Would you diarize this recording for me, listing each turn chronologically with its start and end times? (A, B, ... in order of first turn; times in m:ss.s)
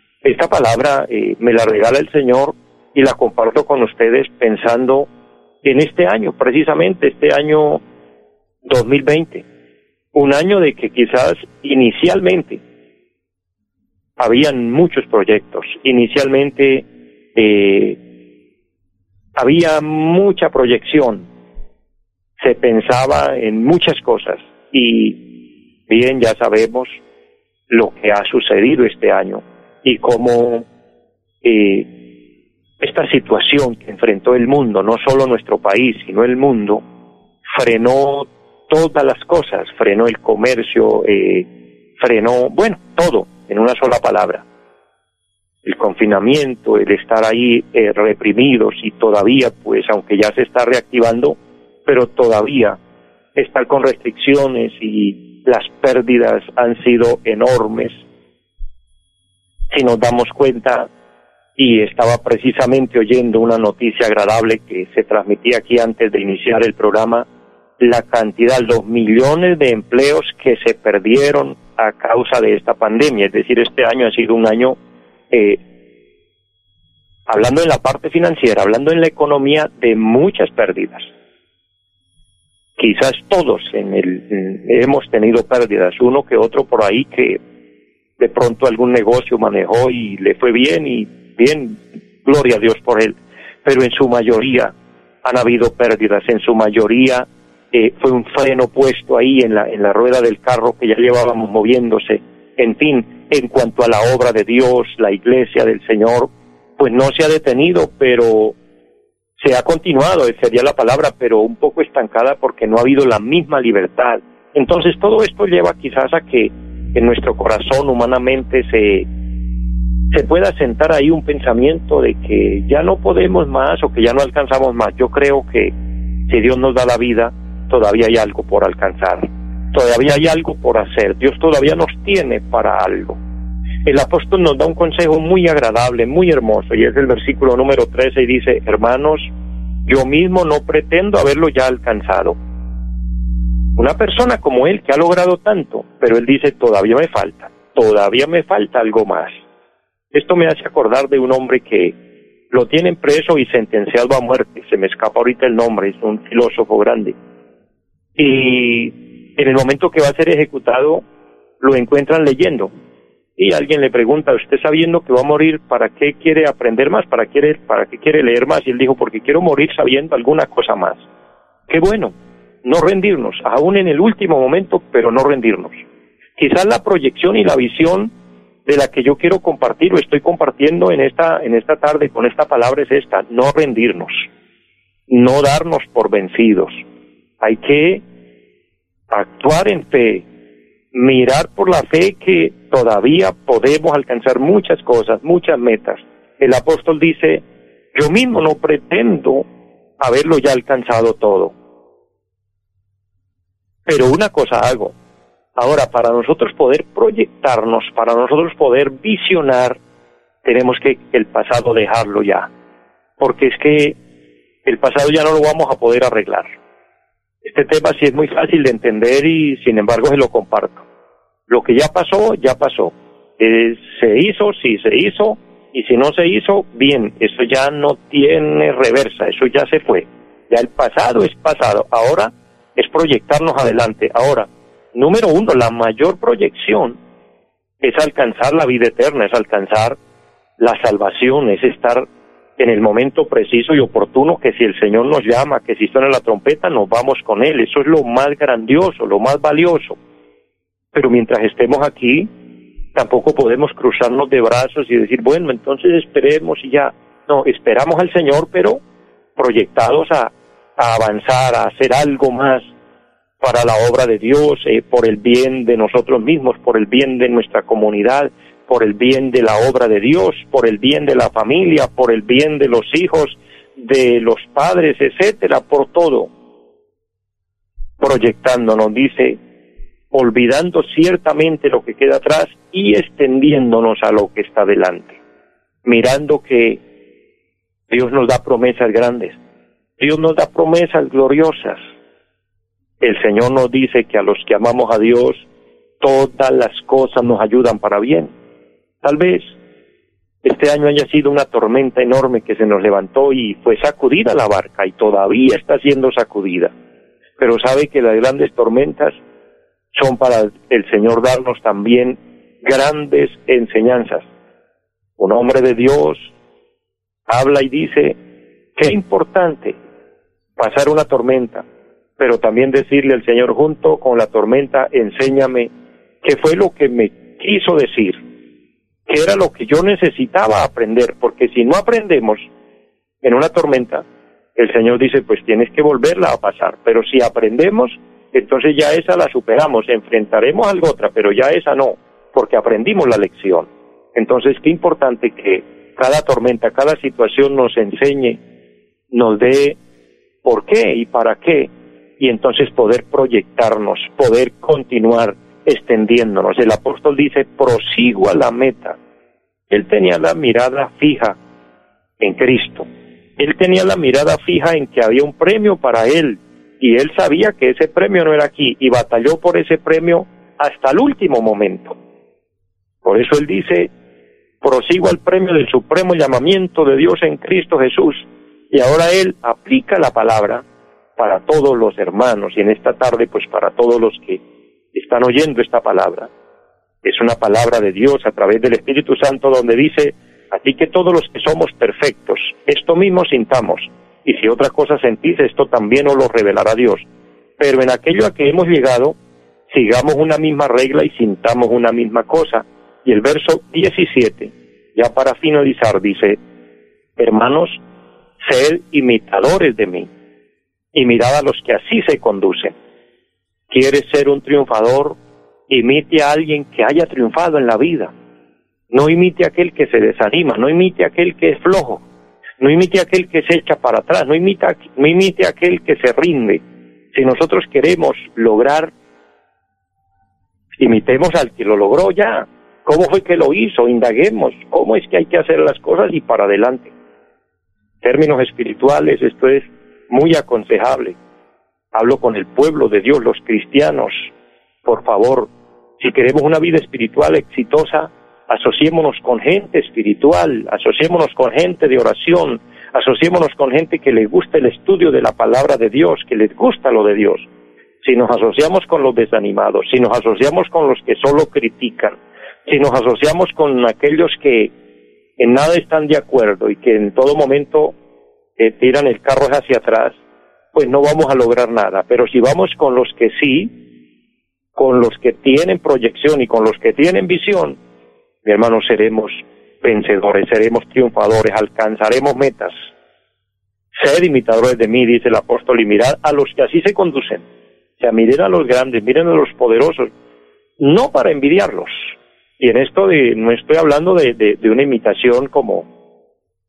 0:00.2-0:05.1 A
0:05.6-0:07.8 A
0:08.6-0:09.4 A
0:10.1-0:12.6 A
0:14.2-0:18.0 A
0:19.3-0:21.3 A
0:22.4-0:25.3 A
0:25.9-0:27.0 A
0:27.7-0:30.6 A
0:31.4-0:31.9 A
0:32.8-0:36.8 A
0:37.5-0:44.4 A
0:45.6-0:52.8 A
0:53.4-0:58.0 A
0:59.7-1:00.9 A
1:01.6-1:07.2 A
1:07.8-1:14.8 A
1:15.3-1:15.6 A
1:17.3-1:21.1 A
1:22.8-1:27.4 A
1:28.2-1:48.6 A
1:49.4-1:59.1 A
2:00.1-2:05.7 A
2:06.3-2:13.2 A
2:13.8-2:19.3 A
2:19.8-2:22.4 A
2:23.8-2:29.4 A
2:30.1-2:32.0 A
2:32.5-2:37.1 A
2:38.2-2:41.0 A
2:41.6-2:42.7 A
2:43.4-2:51.0 A
2:51.7-2:55.8 A
2:56.4-2:58.1 A
2:58.6-3:04.2 A
3:05.1-3:06.8 A
3:07.4-3:08.0 A
3:09.1-3:10.2 A
3:10.9-3:19.4 A
3:20.0-3:21.5 A
3:23.8-3:24.9 A
3:25.6-3:29.8 A
3:30.4-3:32.5 A
3:33.2-3:34.0 A
3:34.6-3:36.5 A
3:37.4-3:40.8 A
3:41.5-3:57.0 A
3:57.8-4:00.0 A
4:00.6-4:02.0 A
4:02.6-4:10.0 A
4:10.9-4:12.3 A
4:12.9-4:18.8 A
4:19.4-4:22.7 A
4:23.4-4:36.3 A
4:38.0-4:39.4 A
4:40.1-4:45.2 A
4:45.8-4:46.8 A
4:47.9-4:49.4 A
4:50.0-4:51.8 A
4:53.0-4:55.4 A
4:56.0-4:58.3 A
4:59.0-4:59.5 A
5:00.4-5:06.7 A
5:07.4-5:09.2 A
5:09.9-5:14.3 A
5:15.2-5:16.3 A
5:17.3-5:18.2 A
5:18.8-5:19.8 A
5:20.6-5:21.6 A
5:22.2-5:25.7 A
5:26.2-5:28.2 A
5:29.1-5:32.5 A
5:33.2-5:34.0 A
5:34.6-5:48.4 A
5:49.1-5:49.8 A
5:50.4-5:59.0 A
5:59.7-6:01.4 A
6:02.2-6:02.9 A
6:03.4-6:12.0 A
6:13.0-6:13.9 A
6:14.6-6:20.6 A
6:21.2-6:24.4 A
6:24.9-6:26.3 A
6:27.0-6:37.0 A
6:37.6-6:39.2 A
6:39.7-6:46.4 A
6:47.2-6:47.8 A
6:48.4-6:50.1 A
6:50.9-6:52.7 A
6:53.7-6:55.2 A
6:55.7-6:58.1 A
6:58.9-7:02.0 A
7:02.6-7:06.6 A
7:07.1-7:08.9 A
7:10.8-7:16.9 A
7:18.0-7:21.2 A
7:21.9-7:24.3 A
7:24.8-7:37.5 A
7:38.0-7:44.7 A
7:45.4-7:47.9 A
7:48.6-7:50.2 A
7:50.7-7:53.8 A
7:54.7-7:57.8 A
7:58.4-8:02.7 A
8:03.9-8:07.4 A
8:08.0-8:10.1 A
8:10.8-8:15.9 A